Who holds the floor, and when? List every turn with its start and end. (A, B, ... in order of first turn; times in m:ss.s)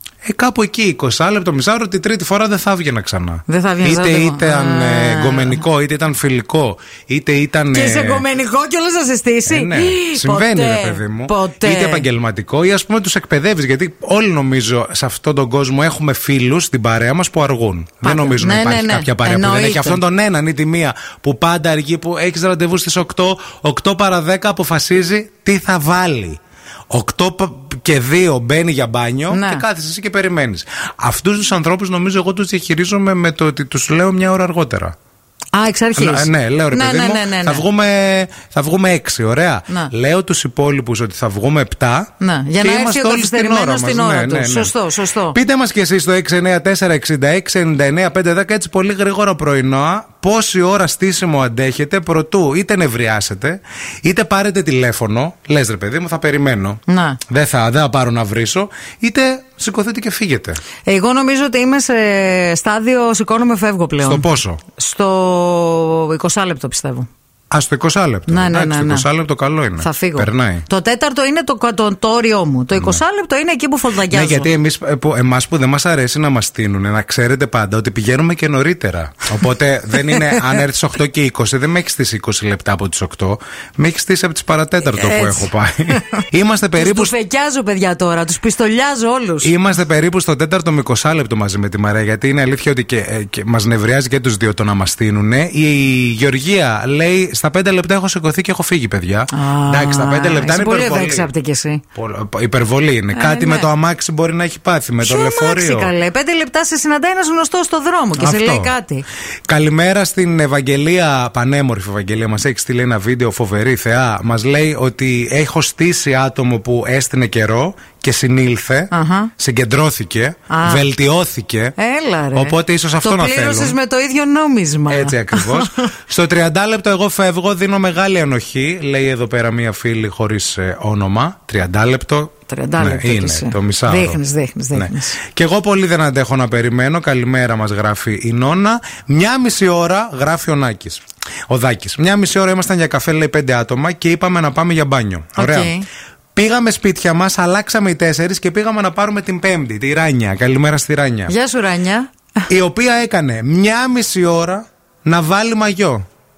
0:00.2-0:08.2 A
0:03.5-0:05.6 B
0:07.7-0:12.0 B
0:09.4-0:26.4 A
0:18.0-0:20.0 B
0:26.9-0:34.9 A
0:29.3-0:29.6 B
0:35.5-0:37.6 B
0:36.0-0:42.1 A
0:42.2-0:45.4 B
0:42.6-0:44.7 A
0:45.3-1:00.6 A
0:56.9-0:57.2 B
1:00.9-1:07.1 B
1:04.0-1:04.6 A
1:07.5-1:10.6 A
1:08.3-1:09.1 B
1:09.8-1:14.5 B
1:12.7-1:13.0 A
1:14.1-1:27.1 A
1:24.9-1:29.5 B
1:29.4-1:41.3 A
1:39.3-1:41.8 B
1:41.9-1:45.9 A
1:43.1-1:43.7 B
1:45.0-1:49.0 B
1:48.2-1:48.7 A
1:49.5-2:01.7 A
1:58.9-1:59.3 B
2:00.5-2:00.8 B
2:01.8-2:05.9 B
2:02.3-2:03.8 A
2:04.9-2:14.2 A
2:12.5-2:15.2 B
2:14.7-2:25.7 A
2:25.4-2:25.9 B
2:26.3-2:31.3 A
2:31.3-2:32.4 B
2:32.5-2:36.0 A